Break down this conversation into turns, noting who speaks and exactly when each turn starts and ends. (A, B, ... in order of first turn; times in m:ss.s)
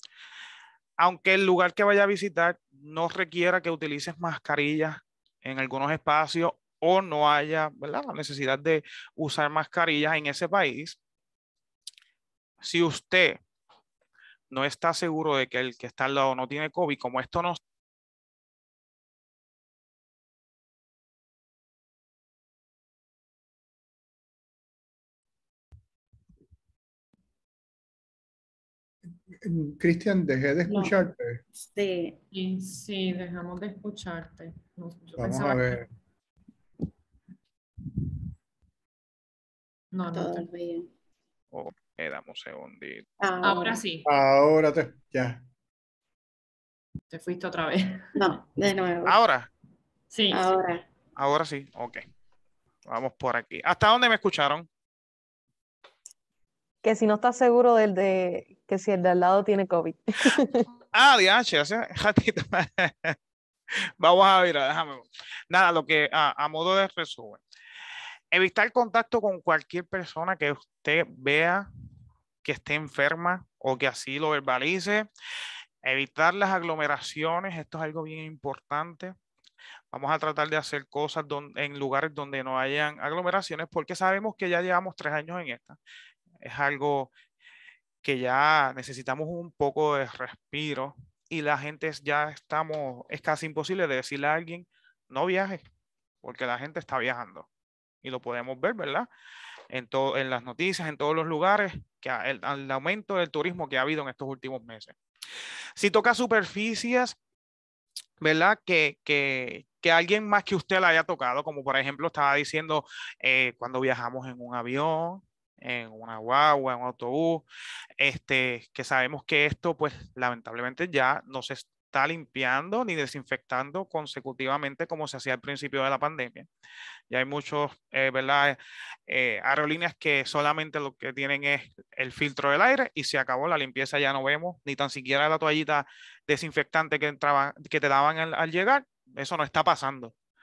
0:01.0-0:11.0 A
0:12.6-0:13.4 A
0:14.5-0:17.6 A
0:29.4-0:31.4 B
0:30.7-0:32.2 C
0:32.3-0:35.8 D
0:35.2-0:35.8 B
0:39.9-0:40.4 D
0:40.1-0:40.9 C
0:41.5-0:43.0 A
0:43.2-0:43.8 C
0:43.4-0:44.1 D
0:44.0-0:45.4 B
0:47.1-0:48.1 D
0:48.2-0:49.2 C
0:49.1-0:49.5 A
0:50.1-0:50.4 D
0:50.3-0:50.8 C
0:51.2-0:52.0 A
0:52.9-0:54.7 A
0:56.8-1:00.7 E
1:00.9-1:03.2 A
1:04.0-1:07.4 A
1:08.3-1:11.7 A
1:12.4-1:15.1 A
1:15.8-1:19.1 A
1:19.9-1:25.8 A
1:26.4-1:27.1 A
1:28.0-1:35.6 A
1:36.2-1:37.5 A
1:38.0-1:39.1 A
1:39.7-1:44.9 A
1:45.8-1:47.2 A
1:48.2-1:57.4 A
1:58.0-2:06.5 A
2:07.1-2:08.6 A
2:09.1-2:20.1 A